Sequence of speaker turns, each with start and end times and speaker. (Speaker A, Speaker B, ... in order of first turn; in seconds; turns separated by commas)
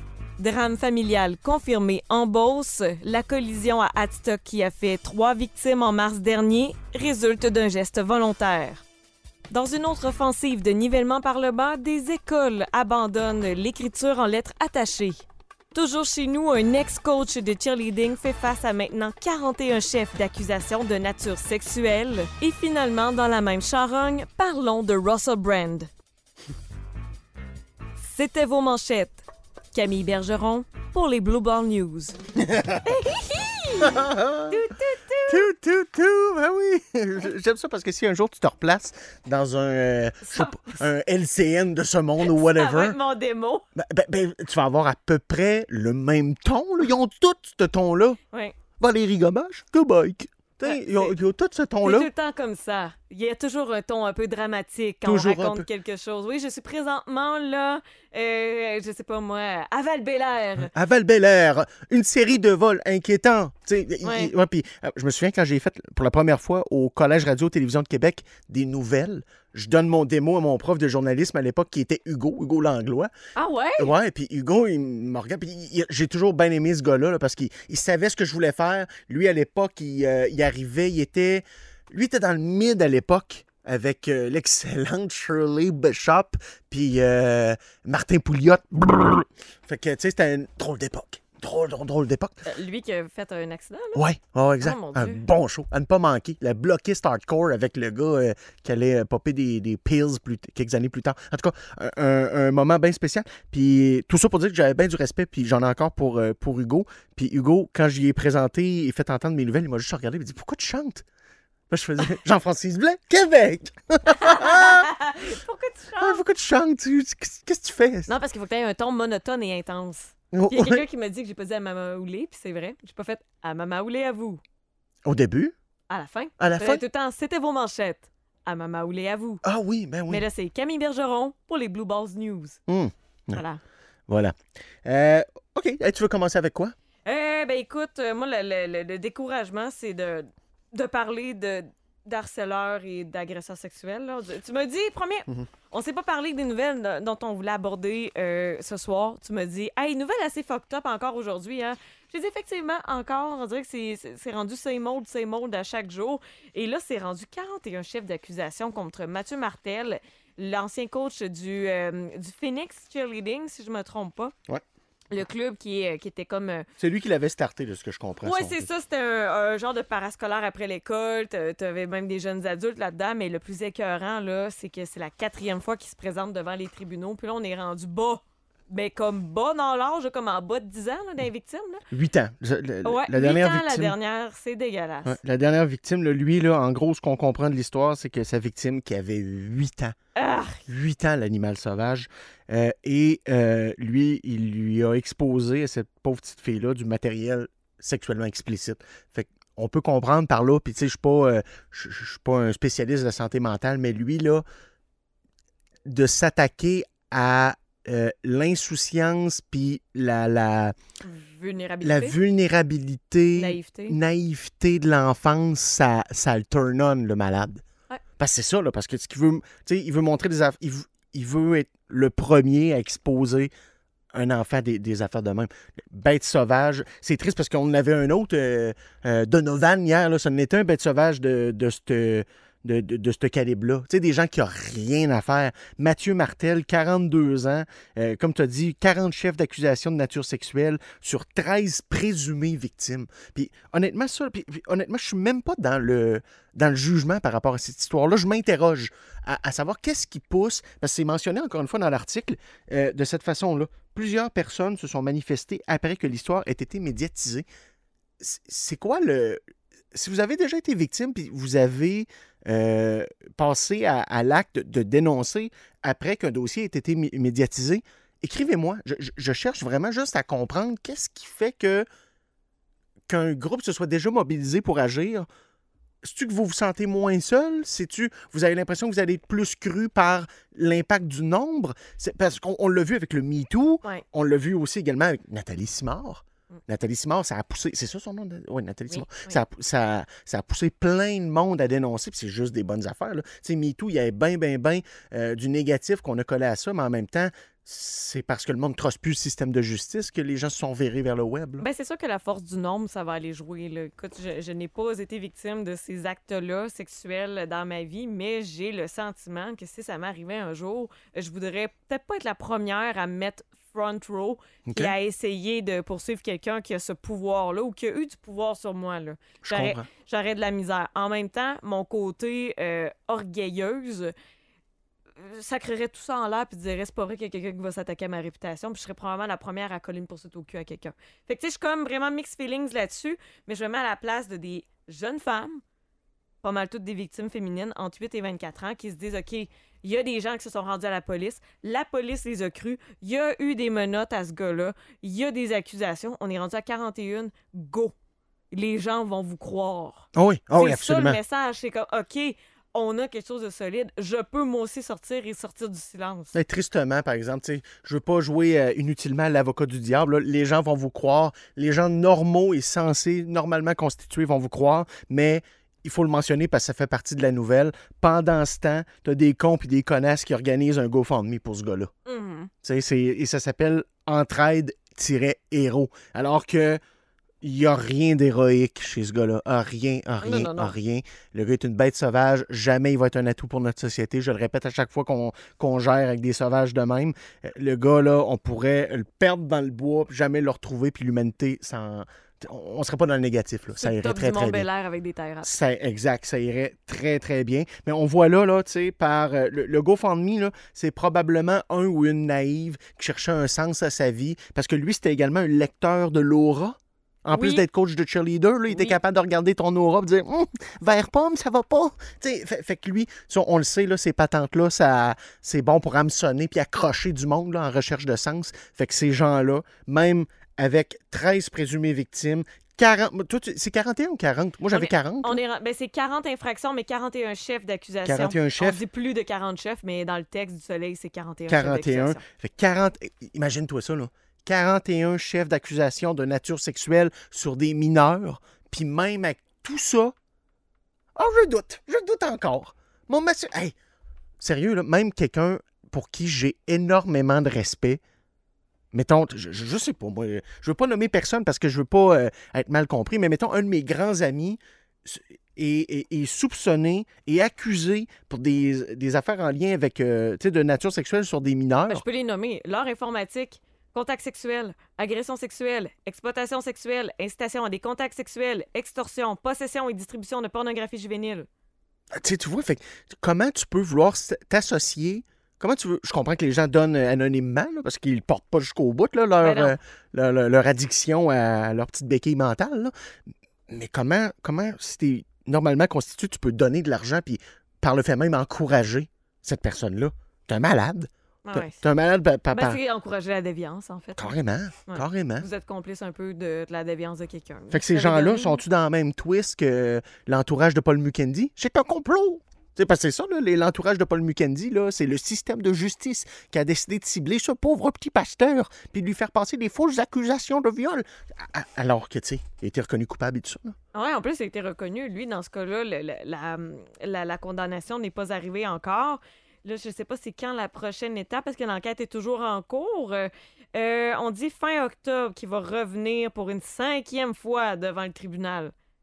Speaker A: 0.4-8.8, Speaker A: 9.5-25.9, Speaker A: 28.0-29.2, Speaker A: 29.7-32.2, Speaker B: 32.5-32.8, Speaker A: 32.8-35.4, Speaker B: 33.8-34.6, Speaker B: 35.3-43.0, Speaker A: 40.2-40.8, Speaker A: 42.2-43.6, Speaker B: 43.7-48.2, Speaker B: 48.8-52.1, Speaker A: 50.6-51.1, Speaker A: 51.8-60.7, Speaker B: 55.0-55.6, Speaker B: 60.7-73.1, Speaker A: 64.0-64.3, Speaker A: 73.3-73.9, Speaker B: 73.8-92.4, Speaker A: 92.5-94.0, Speaker B: 93.9-111.0, Speaker A: 94.6-95.2, Speaker B: 111.7-114.9, Speaker A: 114.1-116.2, Speaker B: 116.0-118.1, Speaker A: 118.1-124.4, Speaker B: 120.3-120.8, Speaker B: 125.0-125.5, Speaker A: 125.9-129.4, Speaker B: 126.4-126.8, Speaker B: 129.4-130.2, Speaker A: 130.1-132.6, Speaker B: 132.7-133.4, Speaker A: 133.3-133.6, Speaker B: 134.1-136.7, Speaker A: 137.0-164.3, Speaker A: 165.1-166.7, Speaker B: 166.8-168.6, Speaker A: 168.2-181.8, Speaker B: 181.9-183.9, Speaker A: 182.8-185.2, Speaker B: 185.0-189.9, Speaker A: 190.2-190.6, Speaker B: 190.7-204.4, Speaker B: 205.8-210.8, Speaker A: 211.0-212.2, Speaker B: 211.8-217.6, Speaker A: 213.3-214.0, Speaker B: 218.2-223.5, Speaker B: 224.1-257.4, Speaker B: 258.2-259.4, Speaker B: 259.9-271.9, Speaker B: 273.1-275.3, Speaker B: 276.0-301.6, Speaker A: 288.9-289.4, Speaker A: 301.6-324.1, Speaker B: 314.6-314.9, Speaker B: 319.4-319.9, Speaker A: 325.2-335.6, Speaker A: 336.4-347.9, Speaker A: 348.5-356.4, Speaker B: 350.1-351.2, Speaker B: 356.3-371.9, Speaker A: 372.1-372.5, Speaker B: 372.6-376.8, Speaker B: 377.4-394.7, Speaker A: 380.2-380.7, Speaker A: 393.8-395.5, Speaker B: 395.4-425.4, Speaker A: 407.3-407.6, Speaker A: 408.7-409.0, Speaker A: 424.7-432.2, Speaker B: 428.0-428.8, Speaker B: 431.5-440.1, Speaker B: 441.1-443.7, Speaker B: 444.4-448.0, Speaker B: 448.9-462.0, Speaker A: 461.9-471.5, Speaker B: 472.1-482.9, Speaker A: 479.4-479.7, Speaker B: 483.7-492.8, Speaker A: 491.4-491.8, Speaker A: 492.5-498.6, Speaker B: 494.2-495.4, Speaker B: 497.7-513.8, Speaker A: 513.9-528.7